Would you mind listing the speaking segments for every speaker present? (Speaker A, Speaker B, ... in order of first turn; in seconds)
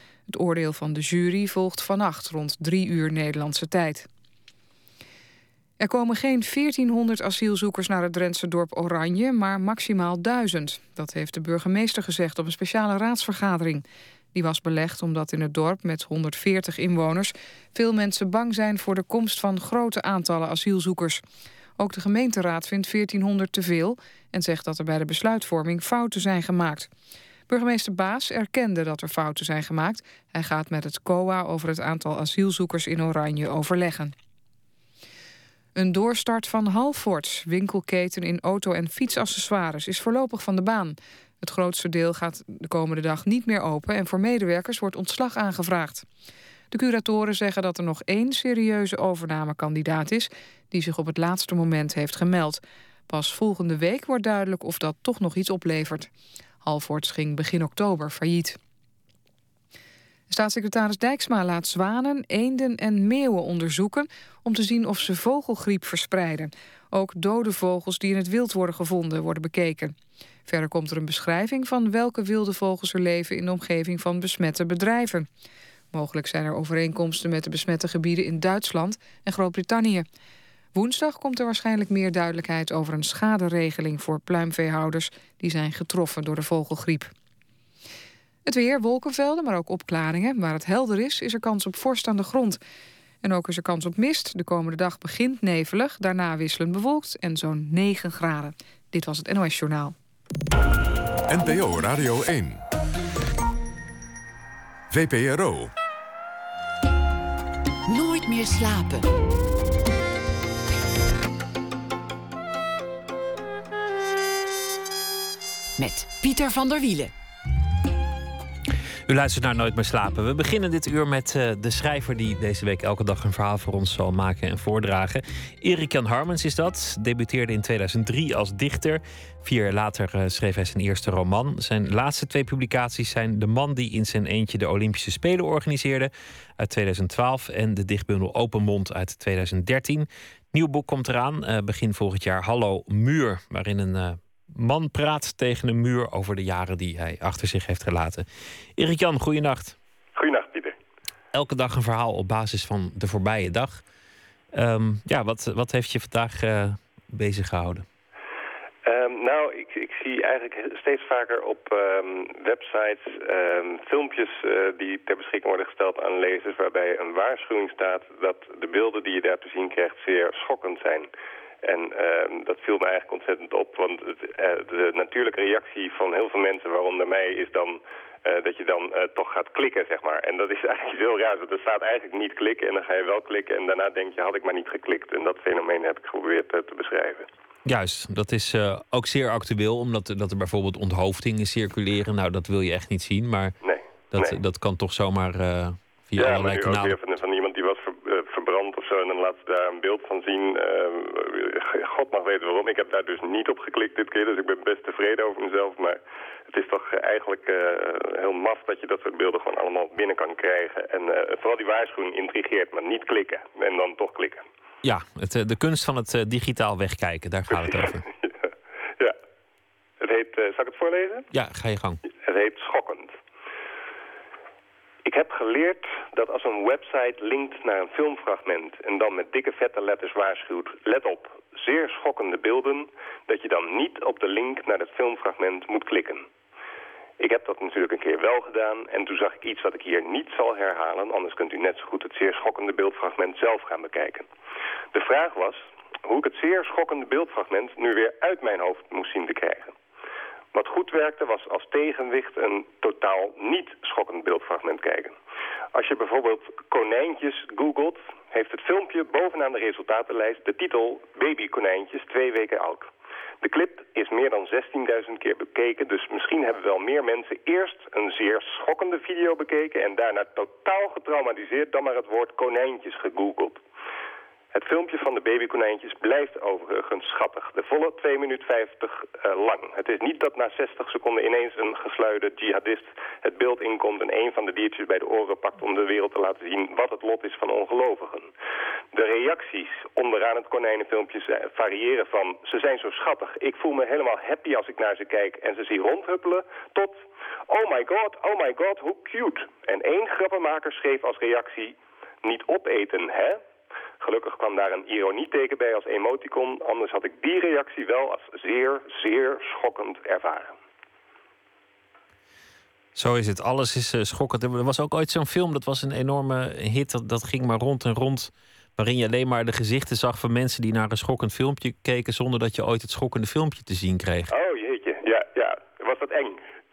Speaker A: 0.3-4.1, 5.8-21.2, 21.8-26.9, 27.5-34.1, 35.8-46.0, 46.7-56.1, 56.6-58.6, 60.3-69.9, 70.5-75.3, 75.9-80.0, 80.7-87.1, 88.5-92.6, 93.2-99.9
Speaker B: 101.3-102.6, 104.9-105.7
Speaker C: 107.9-109.1, 115.8-117.1
Speaker D: 119.1-149.8, 151.3-153.8, 154.5-157.8, 187.6-193.5, 194.1-196.9, 214.8-218.0, 221.3-222.0, 312.9-324.3
Speaker E: 150.2-150.8, 158.8-171.1, 171.6-187.3, 193.6-194.3, 196.2-206.0, 206.5-214.4, 217.5-218.3, 220.0-221.2, 222.2-223.1, 225.0-236.3, 237.2-244.3, 244.9-249.7, 250.5-255.2, 255.7-262.9, 263.4-273.6, 274.5-288.3, 288.9-303.4, 304.0-310.5, 324.3-326.4